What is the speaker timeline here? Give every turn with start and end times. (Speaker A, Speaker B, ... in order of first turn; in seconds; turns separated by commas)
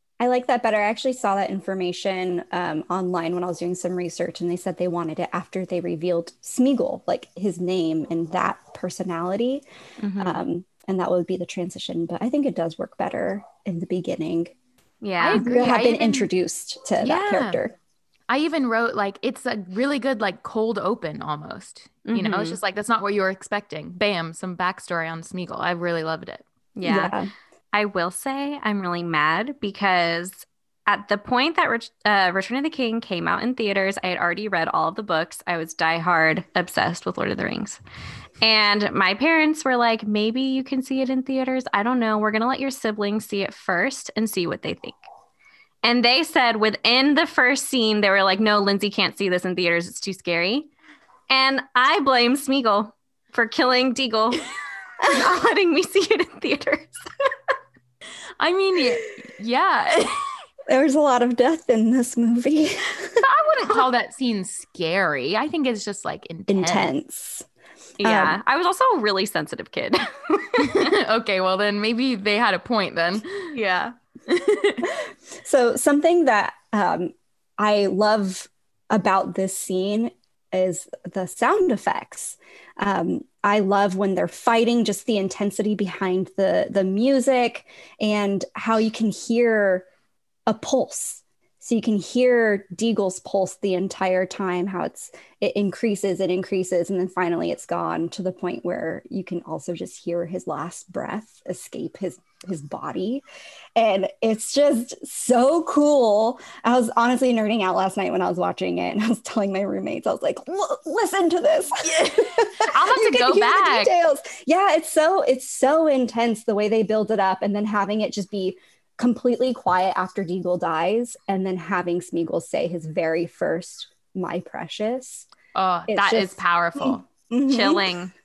Speaker A: 0.2-9.6, Speaker B: 10.0-10.4, Speaker A: 10.2-14.5, Speaker B: 15.0-15.4, Speaker C: 15.2-16.3, Speaker A: 15.3-17.7, Speaker C: 17.0-17.6, Speaker C: 18.3-26.4, Speaker B: 22.1-22.6, Speaker B: 26.8-27.1, Speaker A: 26.8-27.3, Speaker B: 27.7-37.8, Speaker B: 38.4-45.0, Speaker B: 45.8-50.7, Speaker B: 51.3-54.4, Speaker B: 55.0-57.0, Speaker C: 58.4-60.4, Speaker A: 60.7-63.2, Speaker C: 63.2-66.9, Speaker A: 66.5-67.5, Speaker B: 68.0-71.0, Speaker A: 68.0-68.4, Speaker C: 70.6-73.5, Speaker B: 73.5-74.0, Speaker C: 74.3-74.9, Speaker A: 74.8-89.8, Speaker A: 90.5-103.2, Speaker A: 103.8-125.3, Speaker C: 111.8-113.9, Speaker C: 125.5-127.0, Speaker A: 125.9-127.9, Speaker B: 127.5-128.1